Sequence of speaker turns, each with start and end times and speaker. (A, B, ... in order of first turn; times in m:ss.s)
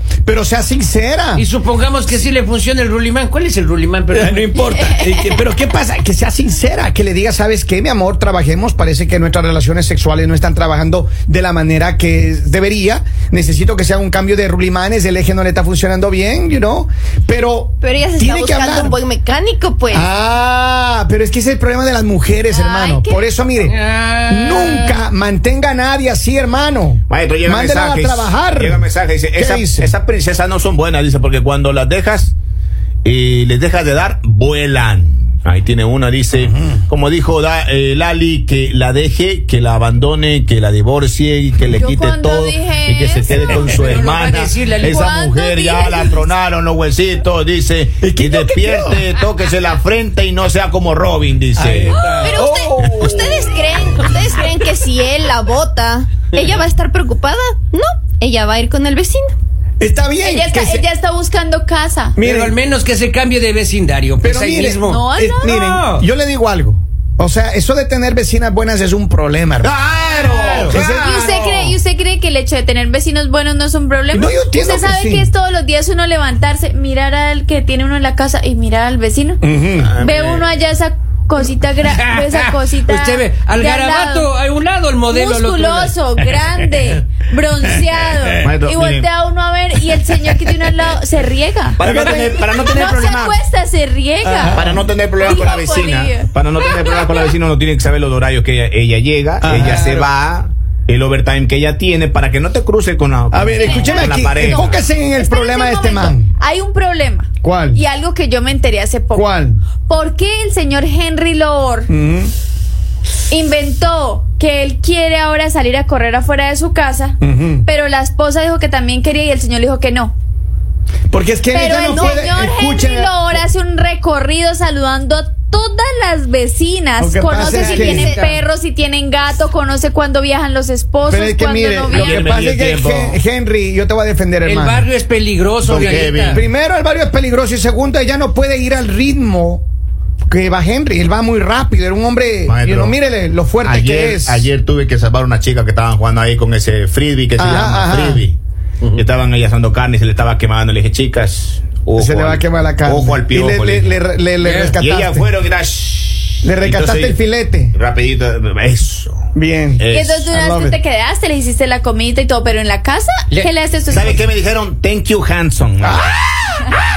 0:00.3-0:01.5 A
0:01.4-0:04.7 B
0:04.1-0:19.0 A
0:05.0-0:05.2 C
0:17.8-0:20.1 D
0:19.9-0:29.9 A
0:22.5-0:23.3 C
0:23.6-0:25.0 B
0:27.1-0:32.3 E
0:33.0-0:52.1 E
0:36.4-0:36.8 A
0:41.7-0:44.1 C
0:43.4-0:45.1 B
0:44.8-0:46.3 C
0:48.0-0:49.0 A
0:51.6-0:53.7 A
0:51.9-0:59.3 D
0:59.8-1:00.9 A
1:00.2-1:02.2 C
1:02.2-1:02.6 A
1:02.2-1:06.0 B
1:04.2-1:09.7 A
1:04.8-1:05.6 C
1:09.6-1:10.8 E
1:10.4-1:11.8 A
1:10.5-1:11.0 B
1:10.7-1:19.4 C
1:14.1-1:15.3 A
1:19.4-1:19.9 A
1:19.8-1:20.5 E
1:20.0-1:24.3 C
1:21.9-1:26.0 B
1:25.1-1:31.8 C
1:28.4-1:29.1 E
1:31.8-1:33.4 E
1:32.7-1:34.6 C
1:34.2-1:34.9 A
1:34.5-1:44.7 E
1:35.2-1:37.4 C
1:39.4-1:40.1 A
1:43.3-1:46.3 A
1:43.6-1:49.3 C
1:47.4-1:47.8 A
1:49.1-1:49.6 A
1:49.9-1:51.9 C
1:51.9-1:52.3 A
1:53.3-2:00.1 C
1:57.2-1:57.7 A
2:01.1-2:03.4 A
2:01.5-2:12.3 C
2:01.9-2:02.2 D
2:07.0-2:08.1 A
2:07.4-2:08.4 B
2:07.5-2:08.3 D
2:11.1-2:14.9 A
2:11.9-2:13.2 E
2:14.4-2:16.4 B
2:15.6-2:16.4 E
2:15.7-2:19.6 A
2:20.3-2:24.5 A
2:22.5-2:23.0 E
2:23.6-2:28.4 E
2:27.4-2:28.3 A
2:28.9-2:34.0 E
2:32.0-2:35.3 A
2:34.4-2:34.8 B
2:34.8-2:37.2 E
2:36.4-2:37.7 A
2:37.7-2:39.2 E
2:39.4-2:40.8 A
2:39.8-2:40.3 E
2:39.9-2:44.2 C
2:43.9-2:46.2 E
2:45.8-2:46.7 A